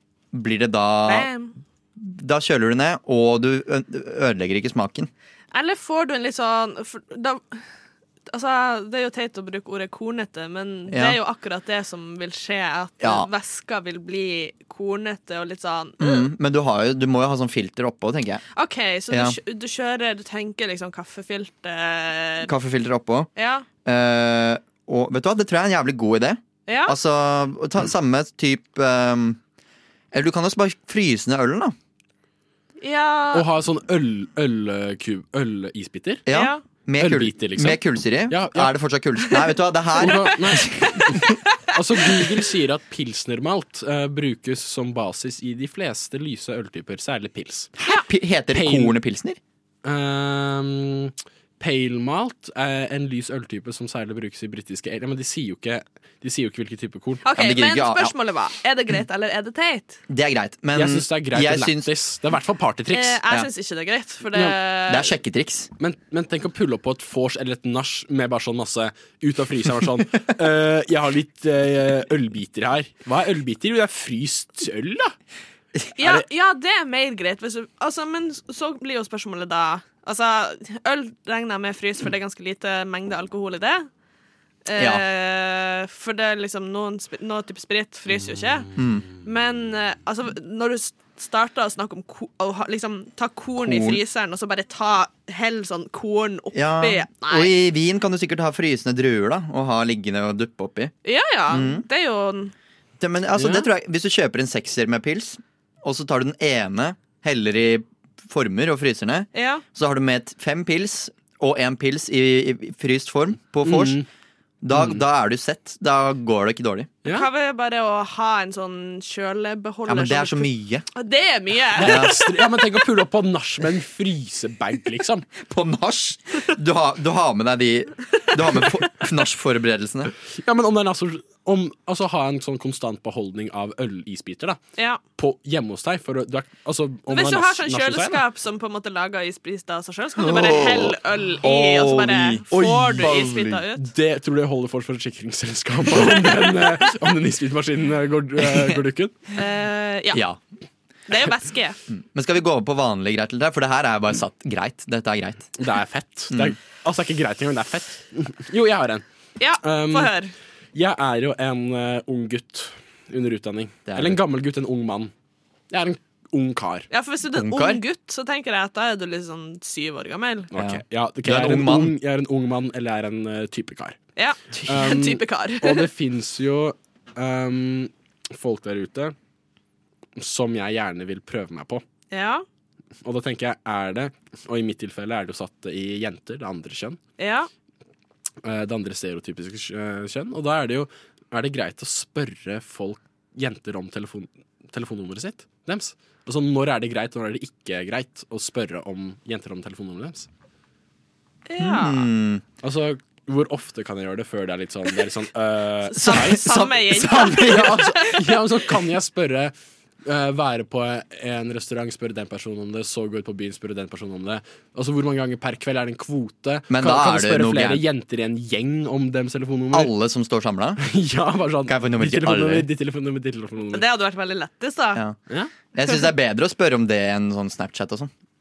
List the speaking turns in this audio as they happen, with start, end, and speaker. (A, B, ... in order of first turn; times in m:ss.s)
0:00.3-0:01.3 A
0:01.0-0:01.5 B
0:02.0-0:05.1 A
0:05.5-0:07.6 B
0:08.3-0:16.3 B
0:10.9-0:11.2 A
0:13.0-0:13.3 A
0:16.0-0:18.4 A
0:18.5-0:22.5 B
0:19.1-0:19.4 A
0:22.4-0:23.3 A
0:23.4-0:23.6 B
0:23.8-0:29.4 A
0:26.7-0:27.0 B
0:30.1-0:31.7 A
0:32.8-0:33.4 B
0:33.3-0:36.2 C
0:36.2-0:41.3 A
0:36.3-0:36.6 B
0:37.0-0:38.7 C
0:40.0-0:47.7 C
0:47.8-0:49.4 A
0:48.5-0:49.0 C
0:49.8-0:57.2 C
0:57.2-1:00.0 B
0:57.3-0:58.1 A
1:00.1-1:01.9 A
1:00.7-1:03.2 C
1:02.9-1:05.1 B
1:04.9-1:05.7 A
1:05.8-1:15.1 C
1:16.0-1:23.9 B
1:24.6-1:28.7 B
1:24.8-1:25.0 A
1:28.8-1:29.0 A
1:29.2-1:37.5 B
1:33.6-1:34.0 A
1:36.5-1:40.9 A
1:41.0-1:42.5 B
1:41.5-1:41.8 A
1:43.0-1:54.0 A
1:43.4-1:43.6 C
1:49.3-1:49.6 B
1:53.6-1:54.0 C
1:54.6-1:56.9 A
1:54.7-1:55.0 C
1:57.1-2:02.2 B
1:59.9-2:00.8 A
2:01.8-2:05.3 C
2:01.8-2:02.1 A
2:05.4-2:10.1 A
2:10.3-2:14.6 C
2:15.2-2:18.2 C
2:17.1-2:23.8 B
2:20.2-2:23.3 A
2:22.5-2:29.2 C
2:26.0-2:26.7 B
2:29.3-2:30.2 B
2:30.1-2:30.4 A
2:31.1-2:31.8 B
2:31.9-2:35.5 A
2:35.6-2:39.0 C
2:36.3-2:36.6 A
2:39.4-2:40.3 B
2:39.6-2:40.1 C
2:40.7-2:45.1 C
2:43.9-2:44.2 A
2:45.7-2:46.9 C
2:46.9-2:50.5 B
2:47.3-2:47.8 A
2:50.5-2:54.0 C
2:50.6-2:51.9 A
2:54.2-2:55.9 B
2:54.6-2:59.1 C
3:00.2-3:01.8 C
3:02.1-3:02.4 B
3:03.0-3:07.0 C
3:07.2-3:07.5 B
3:08.4-3:20.3 C
3:21.5-3:22.1 B
3:21.6-3:22.4 A
3:22.6-3:26.4 C
3:25.9-3:28.2 B
3:26.0-3:28.0 A
3:27.4-3:29.5 C
3:30.0-3:39.9 C
3:36.7-3:37.8 A
3:39.7-3:40.8 A
3:40.8-3:43.8 C
3:41.7-3:42.7 A
3:43.7-3:45.0 B
3:45.7-3:48.1 A